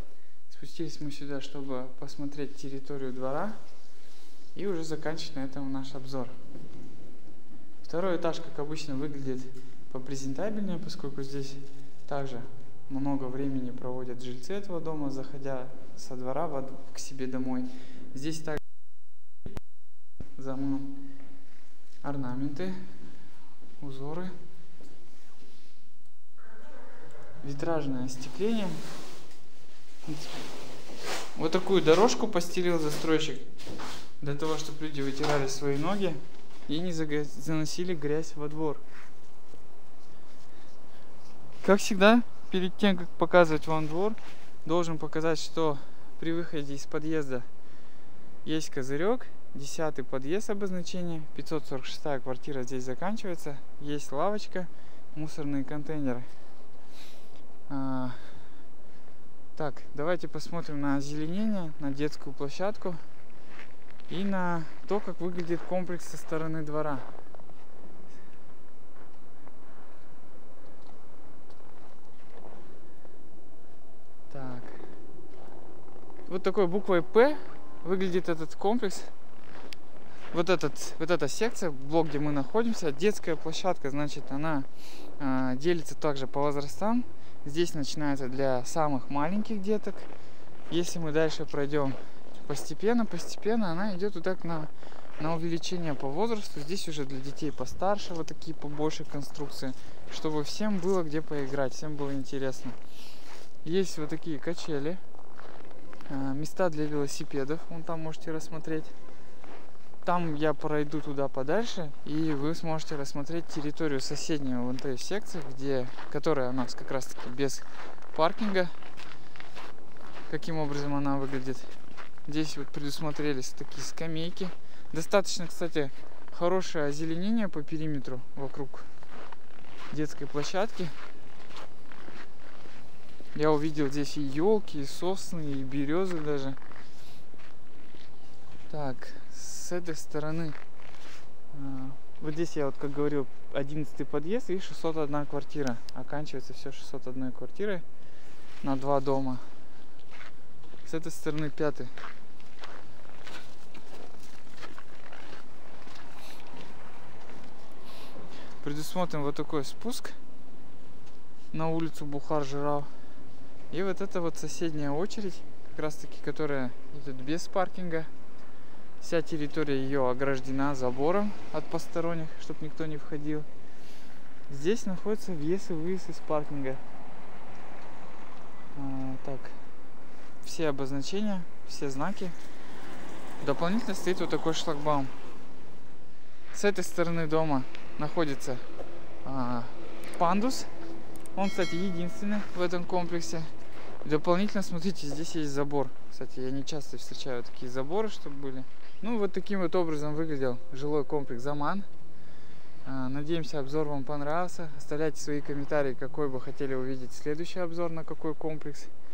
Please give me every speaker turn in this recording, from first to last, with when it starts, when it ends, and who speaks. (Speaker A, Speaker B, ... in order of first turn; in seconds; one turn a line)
Speaker A: 0.5-3.6
Speaker A: 4.5-6.3
Speaker A: 7.8-18.6
Speaker A: 20.4-21.0
Speaker A: 22.0-22.8
Speaker A: 23.8-24.3
Speaker A: 27.4-28.8
Speaker A: 31.3-33.5
Speaker A: 34.2-38.8
Speaker A: 41.6-47.5
Speaker A: 48.4-56.3
Speaker A: 57.7-58.3
Speaker A: 59.5-63.0
Speaker A: 64.1-67.1
Speaker A: 74.3-74.8
Speaker A: 76.2-79.1
Speaker A: 80.3-84.7
Speaker A: 85.2-90.1
Speaker A: 90.7-102.8
Speaker A: 103.6-105.0
Speaker A: 106.1-108.9
Speaker A: 110.0-118.7
Speaker A: 120.3-121.7
Speaker A: 122.2-128.9
Speaker A: 129.9-130.9
Speaker A: 133.3-136.6
Speaker A: 138.7-140.6
Speaker A: 141.5-147.8
Speaker A: 148.6-149.4
Speaker A: 150.8-151.9
Speaker A: 158.6-160.2
Speaker A: 161.5-162.9
Speaker A: 163.7-168.1
Speaker A: 169.0-173.5
Speaker A: 174.5-176.8
Speaker A: 178.7-179.5
Speaker A: 180.4-182.3
Speaker A: 183.4-185.1
Speaker A: 186.5-188.6
Speaker A: 189.2-190.7
Speaker A: 191.3-193.5
Speaker A: 194.0-201.9
Speaker A: 202.8-208.9